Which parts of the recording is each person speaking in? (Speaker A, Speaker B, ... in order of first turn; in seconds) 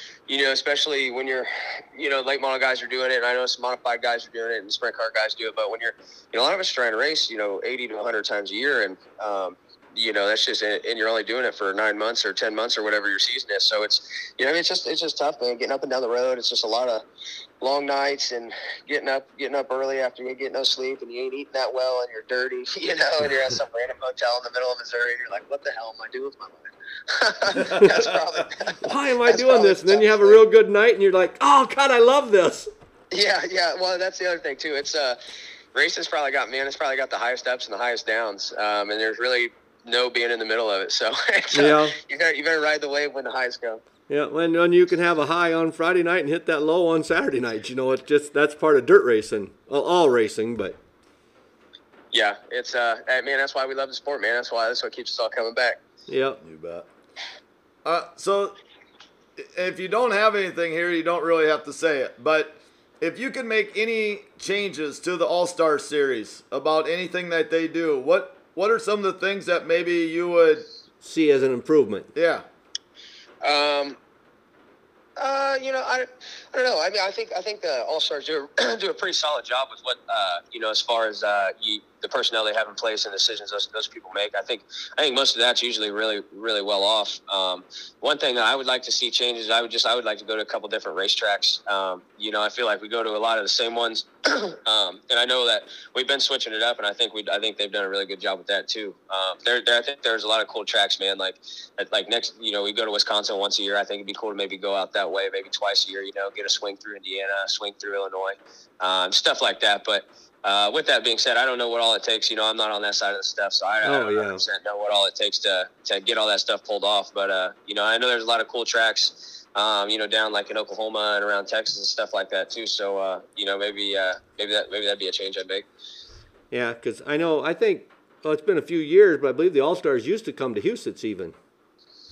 Speaker A: 0.3-17.0, 17.6-30.4, 33.1-35.2, 35.7-43.8, 52.1-55.8, 73.4-74.0, 75.2-125.7
Speaker B: 27.6-28.1, 56.4-56.9, 57.9-58.5, 59.4-70.7, 72.2-72.5
Speaker C: 28.8-32.7, 41.5-42.0, 44.1-50.8, 56.1-56.4, 71.0-72.1, 113.8-114.4, 126.5-131.3